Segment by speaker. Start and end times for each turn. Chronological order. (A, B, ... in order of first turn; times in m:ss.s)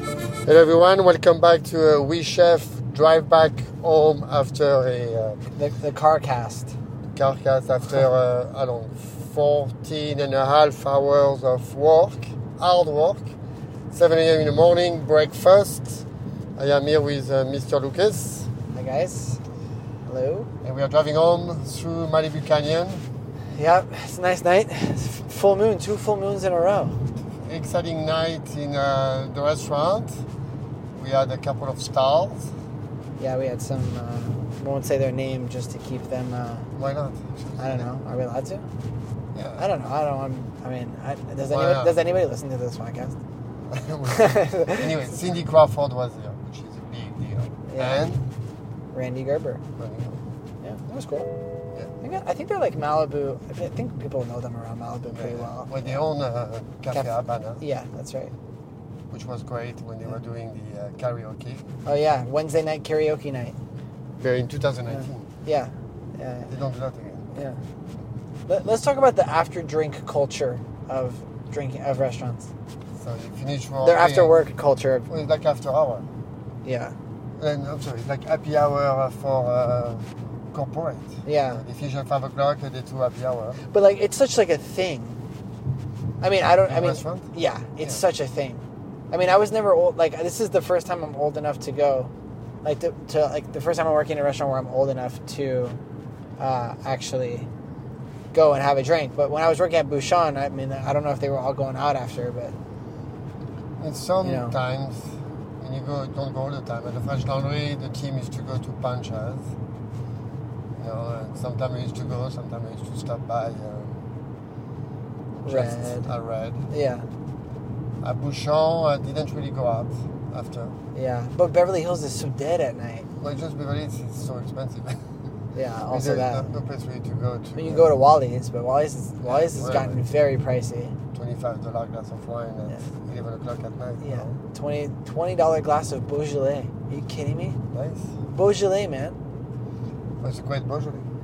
0:00.4-0:05.4 A
0:05.6-0:06.7 B
0:07.1-0:13.3 A
0:13.9-0:16.0 A
0:16.6-0:18.5 A
0:18.7-0:19.4 B
0:20.0-0:20.5 B
0:20.6-0:23.0 A
0:23.6-0:27.0 B
0:27.3-0:30.2 A
0:31.0-0:32.5 A
0:33.2-0:36.7 B
0:36.8-0:37.9 A
0:37.6-0:38.7 B
0:39.3-0:39.7 A
0:39.6-0:43.2 B
0:41.5-0:42.0 A
0:43.7-0:48.3 A
0:44.1-0:44.9 B
0:47.7-0:48.1 B
0:48.9-0:49.6 B
0:49.8-0:50.2 A
0:50.6-0:51.3 B
0:52.0-0:56.0 B
0:55.1-0:57.6 A
0:56.9-0:58.3 B
0:59.1-1:01.7 A
1:01.8-1:03.6 B
1:04.2-1:05.3 A
1:04.9-1:06.5 B
1:06.5-1:07.3 A
1:07.3-1:07.6 B
1:08.5-1:12.5 B
1:13.0-1:14.4 A
1:13.8-1:15.1 B
1:15.1-1:16.0 A
1:16.6-1:16.9 B
1:17.4-1:23.6 A
1:21.2-1:21.6 B
1:23.7-1:25.2 B
1:26.2-1:32.1 B
1:26.6-1:28.0 A
1:32.6-1:35.8 B
1:36.4-1:37.5 B
1:38.3-1:42.5 B
1:43.8-1:49.5 A
1:44.2-1:44.5 B
1:50.8-1:54.0 A
1:55.4-1:56.7 A
1:55.4-1:56.1 B
1:56.7-1:57.1 B
1:58.0-2:00.8 A
2:00.9-2:03.1 B
2:03.2-2:05.0 A
2:05.5-2:06.5 B
2:05.9-2:07.9 A
2:07.6-2:11.0 B
2:09.2-2:10.0 A
2:11.1-2:14.4 A
2:14.0-2:17.6 B
2:17.7-2:18.2 A
2:18.3-2:19.2 B
2:20.2-2:21.1 A